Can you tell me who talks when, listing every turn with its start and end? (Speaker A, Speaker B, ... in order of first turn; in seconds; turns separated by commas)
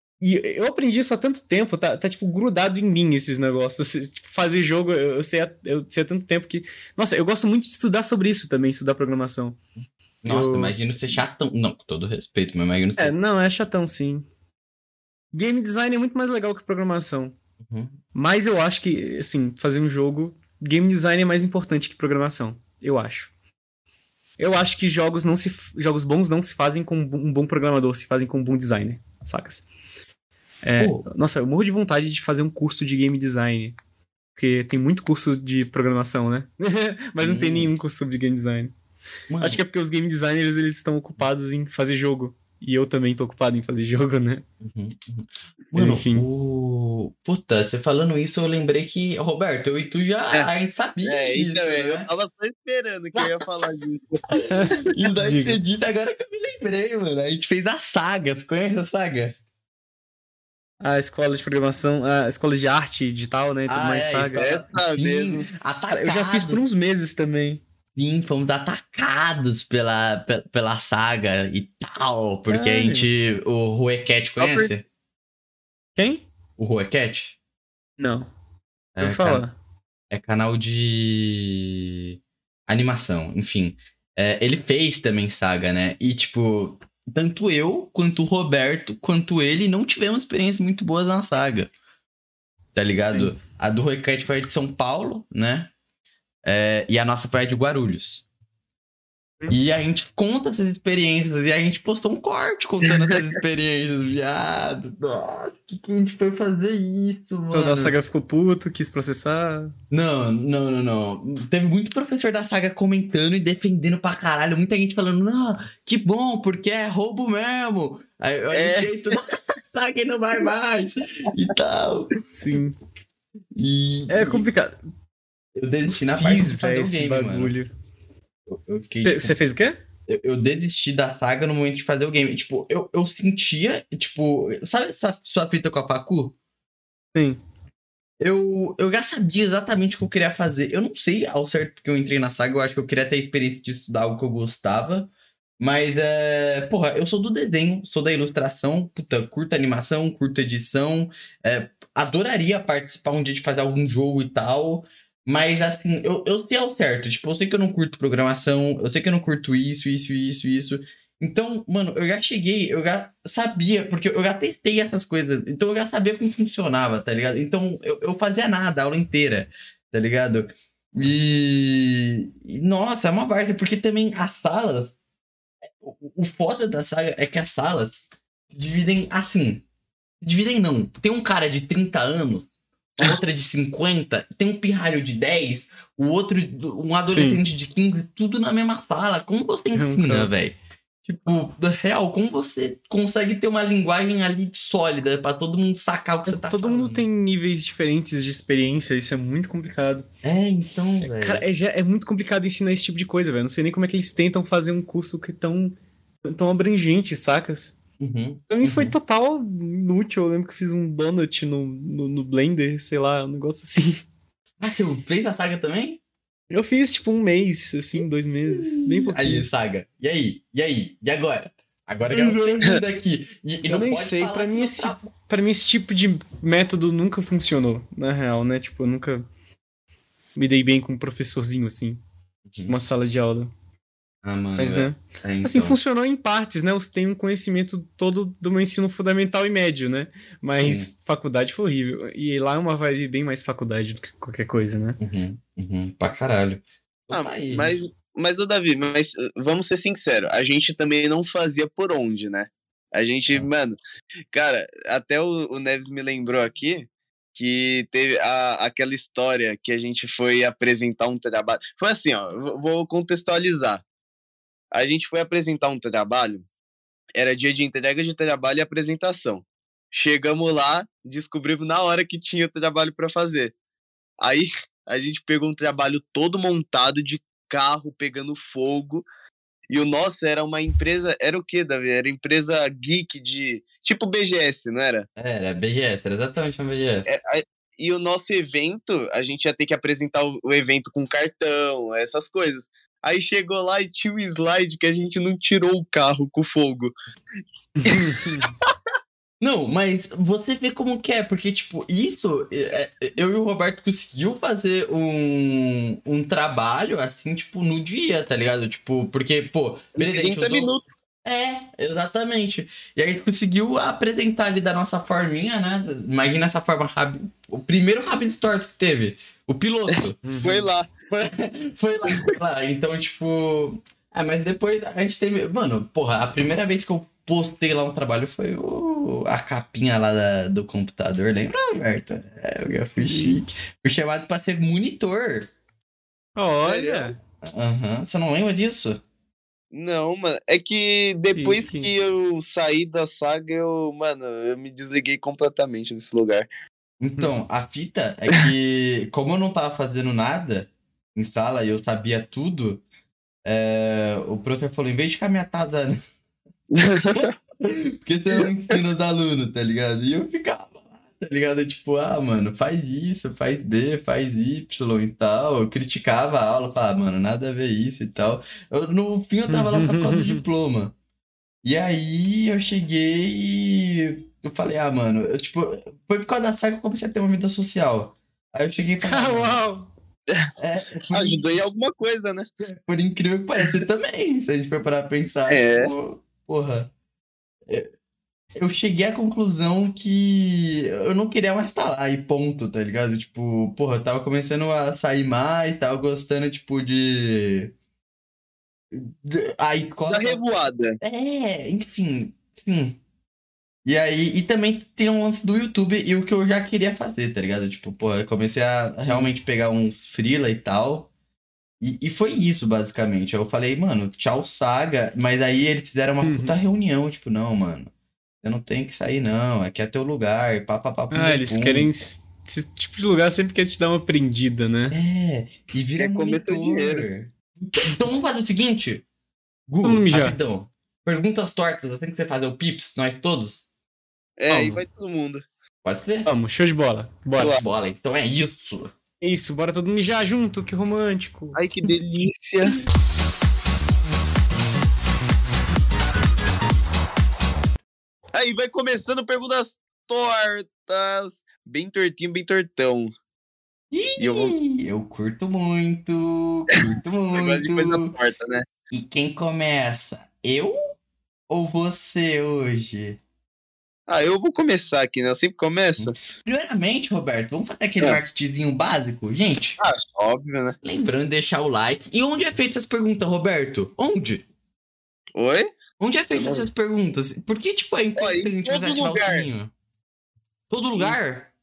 Speaker A: 0.2-9.6, Speaker B: 10.2-13.1, Speaker A: 10.2-10.7, Speaker A: 13.0-14.3, Speaker A: 15.3-17.3, Speaker B: 17.6-18.0, Speaker A: 18.1-23.3, Speaker A: 24.4-29.6, Speaker A: 30.6-33.8, Speaker B: 30.8-31.0, Speaker A: 34.3-38.7, Speaker B: 37.2-37.7, Speaker B: 39.3-39.6, Speaker A: 39.4-44.4, Speaker B: 44.6-52.1, Speaker A: 45.7-46.2, Speaker C: 51.0-54.2, Speaker B: 54.3-59.4, Speaker A: 54.5-55.6, Speaker A: 60.8-64.7, Speaker B: 63.7-66.6, Speaker C: 64.3-65.5, Speaker A: 66.0-67.6, Speaker B: 67.9-74.8, Speaker A: 72.5-73.1, Speaker C: 74.4-74.7, Speaker A: 76.0-76.3, Speaker B: 76.6-77.4, Speaker A: 78.0-78.3, Speaker B: 79.0-79.4, Speaker A: 79.0-79.5, Speaker B: 80.1-82.2, Speaker B: 82.7-91.7, Speaker B: 92.7-95.7, Speaker B: 96.4-98.2, Speaker B: 99.5-107.9, Speaker A: 107.5-109.7, Speaker B: 109.9-122.2, Speaker C: 118.5-118.9, Speaker A: 122.3-122.8, Speaker B: 123.5-124.5, Speaker A: 124.1-124.8, Speaker B: 125.5-127.5, Speaker A: 125.9-127.7, Speaker B: 128.5-129.3, Speaker A: 129.0-129.8, Speaker B: 130.1-136.3, Speaker A: 137.1-137.4, Speaker B: 138.2-174.9, Speaker B: 175.7-179.6, Speaker B: 180.2-197.1, Speaker A: 187.1-187.4, Speaker A: 189.7-190.3, Speaker A: 196.3-200.1, Speaker B: 200.2-201.4, Speaker A: 201.0-207.7, Speaker B: 208.0-208.9, Speaker A: 208.5-214.0, Speaker B: 214.6-216.0, Speaker A: 216.5-219.4, Speaker B: 217.9-225.1, Speaker A: 222.1-222.7, Speaker A: 223.7-229.2, Speaker A: 230.3-232.0, Speaker B: 232.5-232.7, Speaker A: 232.7-233.5, Speaker B: 234.2-235.8, Speaker A: 234.6-245.0, Speaker B: 240.6-240.9, Speaker B: 245.0-247.7, Speaker C: 247.1-253.8, Speaker C: 254.3-263.8, Speaker C: 264.7-266.4, Speaker C: 267.1-273.5, Speaker C: 274.2-279.0, Speaker C: 279.7-285.1, Speaker B: 285.2-287.1, Speaker C: 287.1-296.9, Speaker A: 297.8-298.5, Speaker C: 297.9-298.1, Speaker B: 299.4-320.5, Speaker C: 310.0-310.9, Speaker A: 320.2-320.6, Speaker C: 320.4-321.1, Speaker B: 321.1-335.5, Speaker A: 333.0-333.5, Speaker A: 336.4-337.1, Speaker B: 336.7-339.0, Speaker C: 339.7-346.5, Speaker A: 341.3-341.9, Speaker B: 347.0-352.8, Speaker B: 353.4-356.0, Speaker C: 356.7-357.3, Speaker B: 357.1-370.9, Speaker A: 369.5-370.4, Speaker B: 371.6-379.6, Speaker A: 379.0-379.9, Speaker B: 380.6-381.4, Speaker C: 381.1-382.5, Speaker B: 382.6-386.9, Speaker C: 385.5-385.9, Speaker B: 388.6-397.7, Speaker B: 398.9-400.4, Speaker C: 400.1-401.0, Speaker B: 401.0-403.0, Speaker B: 403.9-411.1, Speaker B: 411.8-417.9, Speaker A: 416.2-416.5, Speaker B: 418.4-421.9, Speaker A: 421.1-424.9, Speaker B: 424.9-429.0, Speaker C: 425.9-427.1, Speaker B: 429.7-433.7, Speaker A: 429.8-430.4, Speaker C: 434.4-435.4, Speaker A: 434.5-434.8, Speaker B: 435.8-436.3, Speaker A: 436.2-437.5, Speaker B: 437.4-438.9, Speaker A: 439.2-441.6, Speaker C: 441.6-442.8, Speaker C: 448.3-453.1, Speaker B: 453.9-458.1, Speaker C: 454.2-454.5, Speaker C: 456.9-458.6, Speaker B: 458.9-460.8, Speaker B: 461.5-463.2, Speaker C: 464.1-466.1, Speaker B: 466.0-469.8, Speaker C: 469.8-470.8, Speaker B: 470.8-474.4, Speaker C: 475.3-475.6, Speaker B: 476.0-479.7, Speaker C: 476.4-476.7, Speaker C: 478.2-479.5, Speaker B: 480.7-481.5